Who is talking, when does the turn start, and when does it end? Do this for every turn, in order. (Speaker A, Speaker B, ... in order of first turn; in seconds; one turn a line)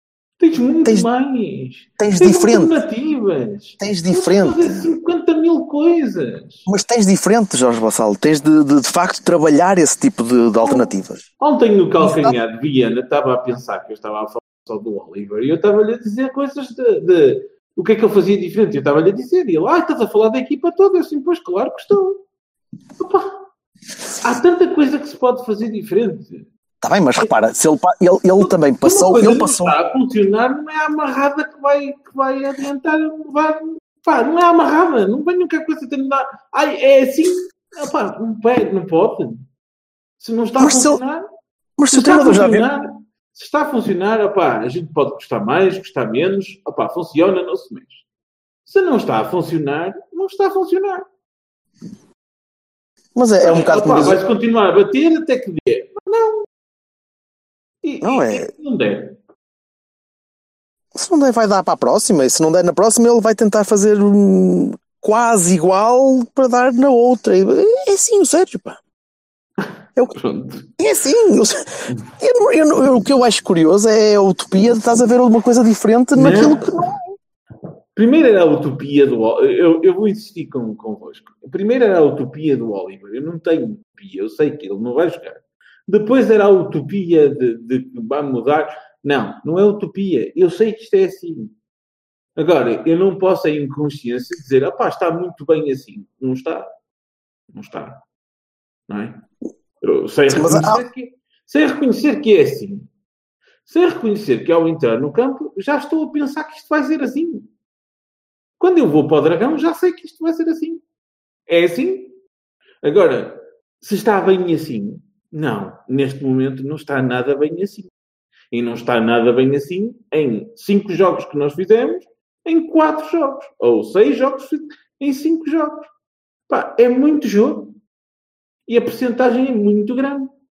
Speaker A: 0.4-6.7
Speaker B: 2.0-2.8
Speaker B: 3.8-4.9
Speaker B: 6.7-11.2
Speaker A: 10.6-10.9
Speaker A: 11.4-22.2
Speaker B: 12.0-12.4
Speaker A: 23.0-23.4
Speaker A: 24.2-26.5
Speaker B: 26.8-29.8
Speaker A: 28.4-39.5
Speaker A: 40.2-41.3
Speaker B: 40.6-41.0
Speaker B: 41.8-42.6
Speaker A: 41.9-48.0
Speaker A: 48.6-51.0
Speaker B: 53.1-54.2
Speaker A: 53.4-56.5
Speaker A: 57.8-59.1
Speaker B: 58.0-58.5
Speaker B: 60.9-68.8
Speaker A: 70.1-70.7
Speaker B: 70.8-77.1
Speaker A: 76.1-76.9
Speaker A: 77.9-91.5
Speaker A: 92.3-96.7
Speaker A: 97.5-98.0
Speaker A: 98.9-99.2
Speaker A: 99.8-102.9
Speaker B: 100.3-100.8
Speaker A: 103.7-107.5
Speaker A: 108.6-110.8
Speaker A: 111.5-112.1
Speaker A: 112.8-117.9
Speaker A: 118.5-125.9
Speaker A: 126.5-127.8
Speaker A: 128.7-130.3